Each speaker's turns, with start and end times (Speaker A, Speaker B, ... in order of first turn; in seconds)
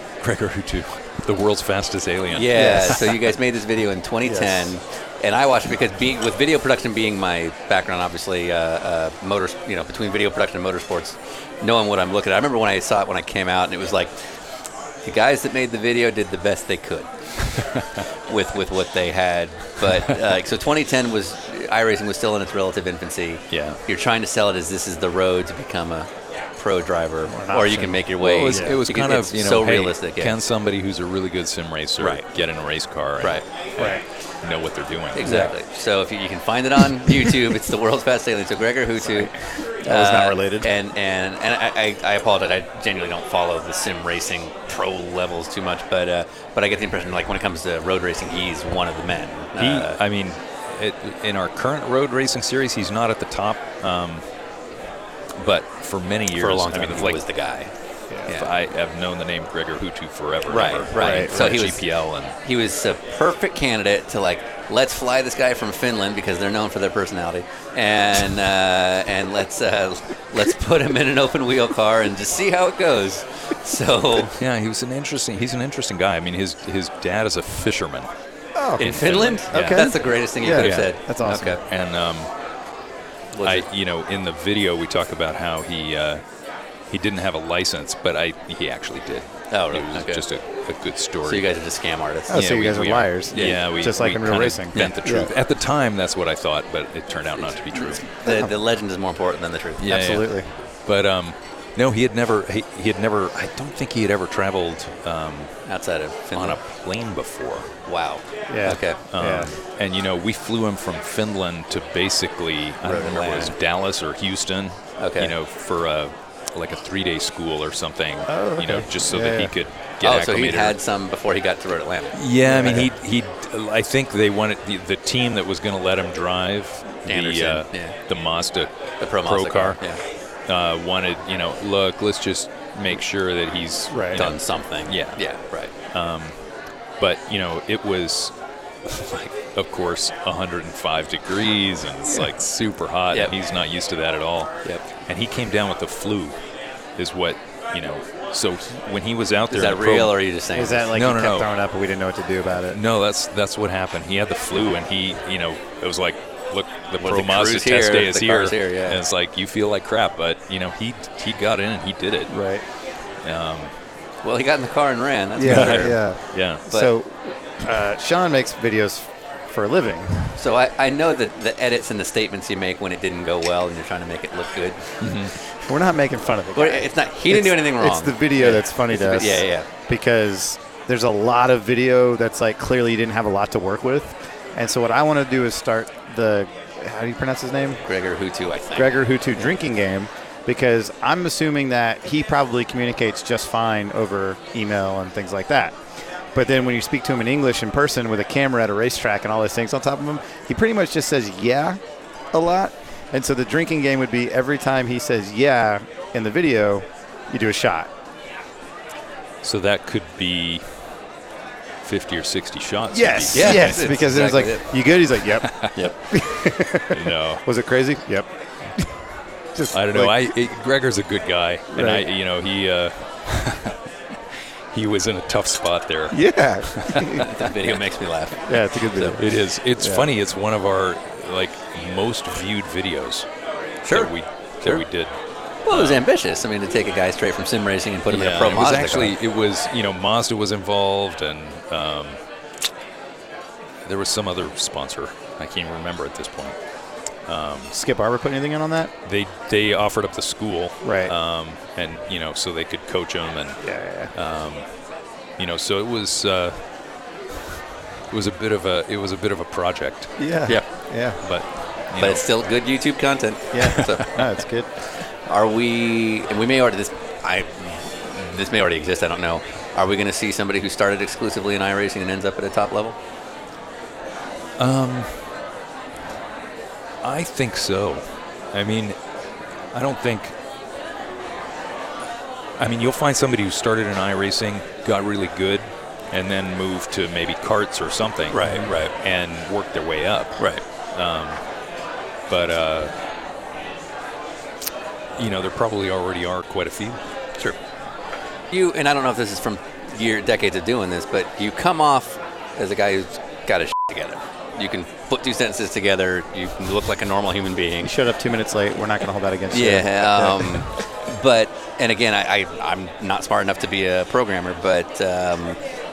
Speaker A: 0.2-3.3, 23.5-23.8, 28.2-35.5, 49.6-54.2, 55.4-57.2, 58.3-62.4, 74.4-78.1, 78.8-80.0, 80.6-80.9, 81.5-82.3, 83.4-86.2, 86.9-91.5, 92.6-98.0, 99.8-105.5, 106.3-107.7, 109.1-120.8, 122.2-129.8, 130.5-135.2, 135.9-136.4, 137.0-138.3, 138.8-146.4, 147.0-150.2, 150.9-151.5, 152.6-162.3, 163.2-163.7, 165.4-166.6, 175.0-175.3, 209.4-210.7, 211.8-213.9, 215.3-215.8, 216.9-217.4, 219.7-227.4, 229.2-233.3, 233.9-235.2, 235.7-236.0, 238.1-242.2, 243.8-246.6, 247.3-247.7, 249.0-254.7, 255.4-256.6, 258.1-260.1, 261.2-262.2, 274.6-275.1, 277.0-279.0, 279.7-280.4, 282.6-291.4, 292.3-292.9, 295.1-297.0
Speaker B: 2.3-14.2, 15.0-17.1, 18.3-30.4, 32.0-32.2, 33.2-33.9, 35.1-39.3, 39.9-50.0, 56.3-57.7, 58.2-58.5, 60.5-61.9, 62.4-74.4, 78.8-81.6, 83.3-83.6, 89.5-90.2, 91.2-93.6, 97.7-100.0, 105.7-106.6, 107.8-109.0, 112.8-113.5, 115.0-115.3, 120.0-122.9, 127.0-128.0, 129.0-130.0, 134.1-135.7, 149.5-150.9, 157.0-159.0, 164.2-166.0, 170.4-175.1, 176.5-179.7, 187.8-189.4, 213.3-214.7, 227.2-229.2, 233.8-234.1, 235.7-239.1, 262.0-264.2, 265.2-273.0, 288.3-288.9, 290.4-290.6, 298.5-307.9, 309.5-315.6
Speaker C: 2.5-3.0, 4.2-4.7, 27.3-28.8, 33.8-34.0, 39.0-40.7, 60.9-61.6, 78.5-79.0, 79.5-81.6, 92.3-95.3, 98.2-98.5, 99.9-100.5, 108.5-109.5, 118.3-119.5, 122.4-122.9, 133.9-134.2, 150.5-152.8, 162.3-162.6, 165.3-170.4, 175.6-187.8, 188.7-195.8, 196.3-201.8, 202.3-207.9, 212.9-218.9, 219.5-220.3, 221.7-222.0, 226.1-227.3, 228.4-230.1, 247.7-248.9, 250.8-251.1, 253.6-254.1, 260.2-261.2, 263.5-264.7, 307.8-310.6